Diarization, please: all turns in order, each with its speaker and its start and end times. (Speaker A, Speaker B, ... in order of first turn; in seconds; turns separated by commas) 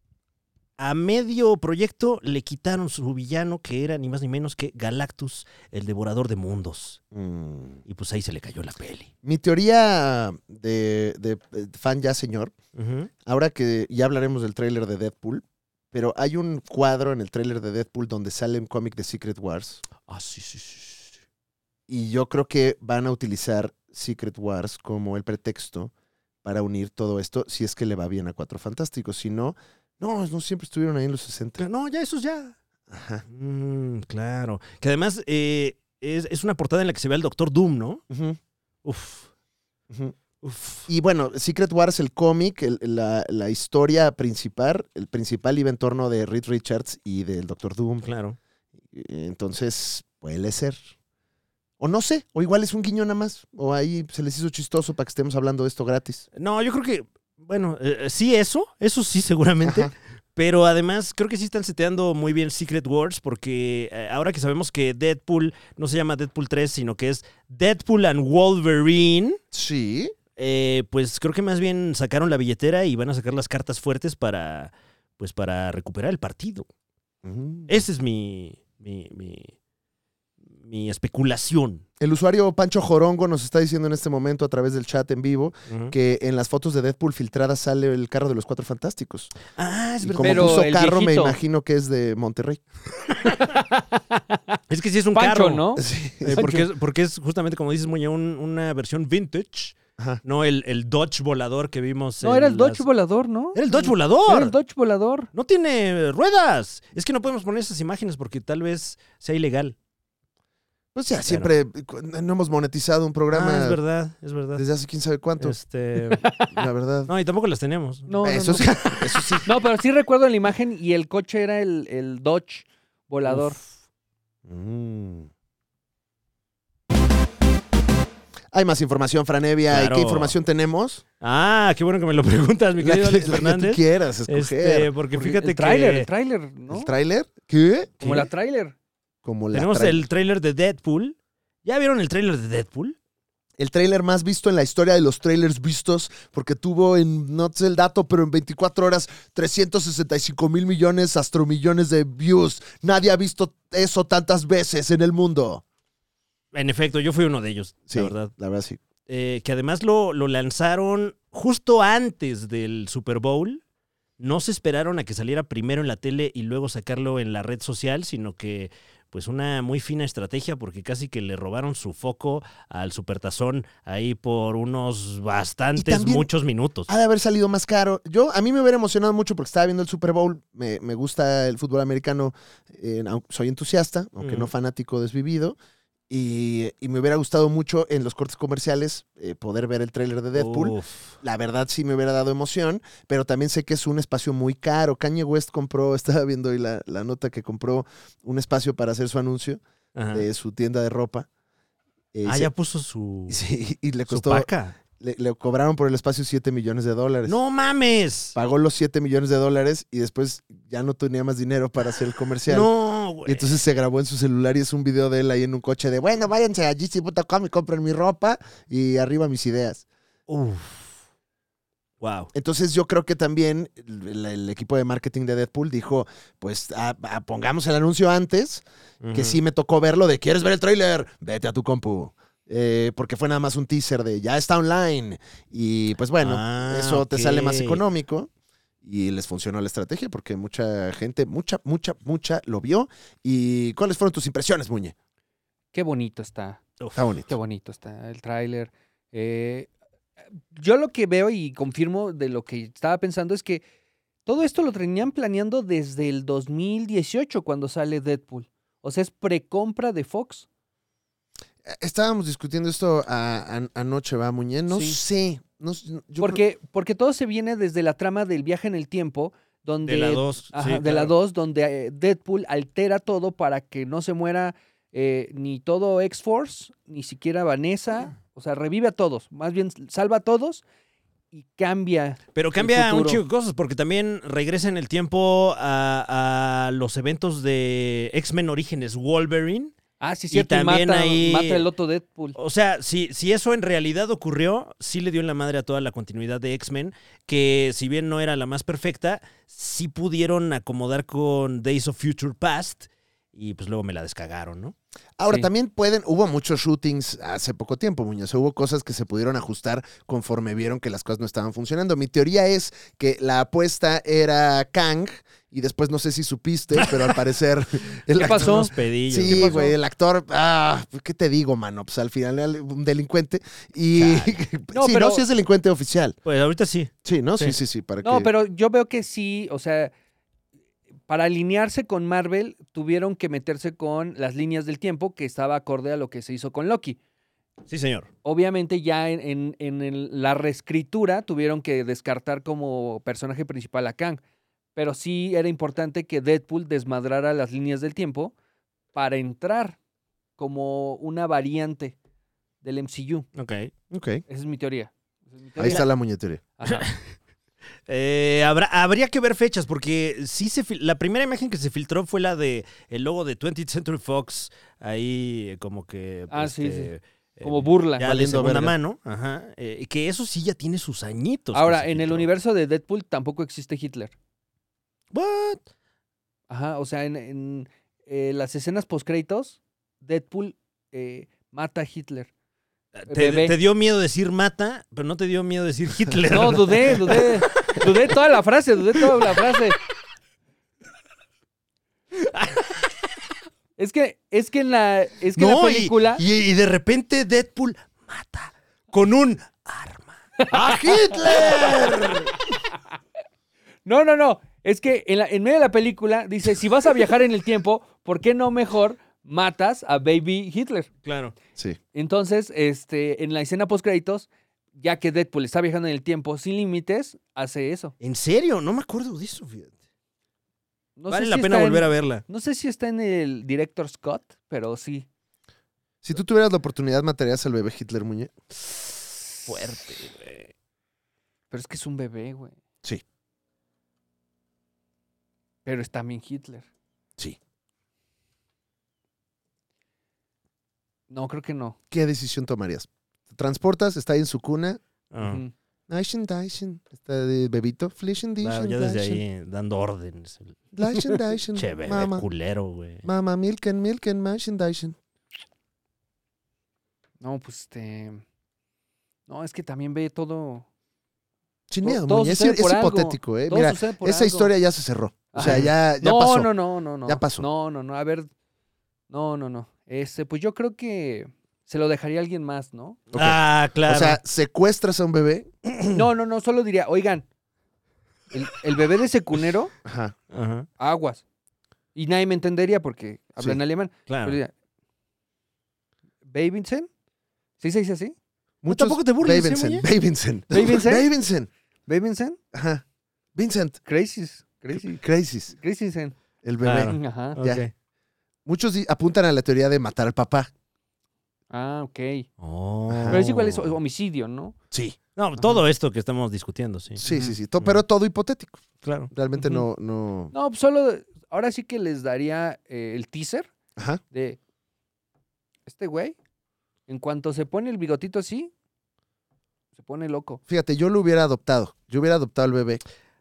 Speaker A: 0.8-7.0, Speaker B: 7.1-7.8, Speaker A: 7.8-9.1, Speaker B: 9.2-12.5, Speaker A: 12.7-13.1, Speaker B: 13.2-19.8, Speaker A: 20.0-21.1, Speaker B: 21.9-25.9, Speaker B: 26.4-31.6, Speaker A: 31.6-32.5, Speaker B: 32.9-33.2, Speaker A: 33.3-38.0, Speaker B: 38.1-38.4, Speaker A: 38.8-39.3, Speaker B: 39.9-40.1, Speaker A: 40.4-40.9, Speaker B: 40.9-48.1, Speaker A: 48.0-48.4, Speaker B: 48.9-50.8, Speaker B: 51.8-56.2, Speaker A: 56.3-69.4, Speaker B: 59.6-59.9, Speaker B: 69.5-70.1, Speaker A: 70.3-76.7, Speaker B: 77.2-77.8, Speaker A: 77.7-79.5, Speaker A: 80.6-81.8, Speaker B: 82.0-89.3, Speaker A: 85.7-85.9, Speaker A: 89.5-90.6, Speaker B: 90.0-92.6, Speaker C: 90.2-91.3, Speaker C: 93.2-94.6, Speaker A: 94.7-102.8, Speaker C: 95.1-96.5, Speaker B: 95.8-96.6, Speaker C: 102.2-105.3, Speaker A: 103.5-104.5, Speaker A: 105.3-109.7, Speaker B: 110.9-113.8, Speaker A: 111.2-111.5, Speaker A: 113.3-114.6, Speaker B: 114.6-115.6, Speaker A: 115.4-116.2, Speaker C: 116.2-116.6, Speaker B: 116.5-117.1, Speaker A: 117.1-119.5, Speaker C: 118.1-118.7, Speaker B: 118.2-119.5, Speaker C: 119.5-123.6, Speaker A: 123.2-123.7, Speaker B: 124.5-125.3, Speaker B: 128.5-131.0, Speaker A: 129.7-130.3, Speaker A: 131.2-136.1, Speaker B: 132.8-134.9, Speaker C: 135.1-136.9, Speaker B: 136.7-138.2, Speaker C: 138.0-138.7, Speaker B: 139.2-140.0, Speaker A: 139.5-142.9, Speaker B: 143.6-155.6, Speaker A: 156.5-158.3, Speaker B: 157.9-158.8, Speaker A: 159.1-163.6, Speaker A: 164.2-176.9, Speaker B: 175.8-176.3, Speaker B: 176.9-185.6, Speaker A: 184.2-184.5, Speaker B: 186.1-199.6, Speaker A: 190.3-191.2, Speaker A: 199.9-200.2, Speaker B: 200.1-201.3, Speaker B: 202.1-202.5, Speaker A: 202.2-203.4, Speaker B: 203.3-207.4, Speaker A: 204.1-204.8, Speaker A: 207.2-208.3, Speaker B: 208.3-212.7, Speaker A: 212.4-213.6, Speaker B: 213.2-219.8, Speaker A: 220.3-220.9, Speaker A: 222.0-222.3, Speaker B: 222.3-238.3, Speaker A: 229.0-229.4, Speaker A: 236.2-237.8, Speaker B: 238.8-244.9, Speaker C: 245.7-246.6, Speaker B: 246.9-247.3, Speaker C: 247.3-249.7, Speaker C: 250.5-253.6, Speaker C: 254.2-260.4, Speaker B: 261.6-266.4, Speaker C: 264.7-265.0, Speaker C: 266.2-280.6, Speaker A: 269.8-271.1, Speaker C: 281.3-283.2, Speaker A: 282.3-289.7, Speaker C: 290.0-292.4, Speaker A: 290.3-291.6, Speaker A: 292.4-304.7, Speaker B: 305.2-326.2, Speaker A: 318.1-319.6, Speaker C: 318.1-319.7, Speaker A: 323.9-324.4, Speaker C: 324.7-325.2, Speaker A: 326.2-327.6, Speaker B: 327.0-328.3, Speaker C: 328.0-329.9, Speaker C: 331.1-337.0, Speaker A: 337.7-338.1, Speaker C: 338.2-344.2, Speaker C: 344.7-348.3, Speaker C: 348.9-349.8, Speaker C: 350.4-351.9, Speaker C: 352.6-353.3, Speaker A: 353.4-353.7, Speaker B: 353.9-354.2, Speaker C: 354.3-355.9, Speaker B: 355.6-356.4, Speaker C: 356.6-356.9, Speaker A: 356.6-357.1, Speaker A: 357.9-372.3, Speaker C: 366.3-366.9, Speaker C: 367.4-368.0, Speaker B: 368.0-368.8, Speaker C: 371.5-374.1, Speaker A: 375.1-375.6, Speaker C: 376.5-382.3, Speaker A: 382.9-387.9, Speaker C: 383.1-383.5, Speaker C: 386.3-389.8, Speaker C: 393.8-396.2, Speaker A: 395.4-400.1, Speaker C: 400.4-401.9, Speaker B: 400.5-402.3, Speaker C: 403.9-410.9, Speaker A: 411.0-411.3, Speaker C: 411.9-417.9, Speaker A: 418.0-419.7, Speaker C: 421.0-425.1, Speaker A: 421.1-422.2, Speaker B: 426.0-428.3, Speaker A: 429.4-430.5, Speaker C: 431.5-432.5, Speaker C: 435.6-436.6, Speaker C: 441.1-441.8, Speaker B: 441.9-444.8, Speaker A: 445.1-445.4, Speaker C: 445.2-445.5, Speaker B: 445.9-449.2, Speaker A: 448.4-450.6, Speaker B: 450.7-452.3, Speaker A: 451.5-453.1, Speaker B: 453.0-455.0, Speaker C: 457.2-458.2, Speaker C: 459.3-460.6, Speaker B: 461.7-466.5, Speaker C: 461.8-464.5, Speaker C: 465.3-468.3, Speaker A: 465.4-465.7, Speaker B: 467.1-467.5, Speaker C: 469.1-473.0, Speaker B: 473.1-475.5, Speaker A: 473.1-474.2, Speaker C: 475.9-477.2, Speaker C: 478.3-479.7, Speaker B: 479.8-480.1, Speaker A: 480.3-480.7, Speaker C: 480.8-481.2, Speaker C: 481.9-484.5, Speaker A: 484.1-484.4, Speaker C: 486.3-486.9, Speaker C: 487.6-488.1, Speaker B: 488.6-491.5, Speaker A: 488.7-489.9, Speaker C: 490.5-491.1, Speaker C: 491.9-492.4, Speaker B: 492.5-492.8, Speaker B: 493.4-493.8, Speaker C: 493.9-495.0, Speaker B: 494.7-495.5, Speaker C: 495.5-496.1, Speaker B: 496.4-497.6, Speaker A: 496.6-497.7, Speaker C: 496.9-497.4, Speaker B: 498.4-500.5, Speaker C: 501.5-502.3, Speaker A: 502.4-503.7, Speaker B: 502.9-503.2, Speaker C: 503.1-504.6, Speaker B: 504.7-505.0, Speaker A: 505.1-507.0, Speaker B: 507.0-510.3, Speaker A: 508.8-509.1, Speaker C: 510.3-513.5, Speaker C: 514.1-514.4, Speaker C: 515.7-516.1, Speaker C: 516.9-518.5, Speaker C: 519.8-520.4, Speaker B: 520.5-522.8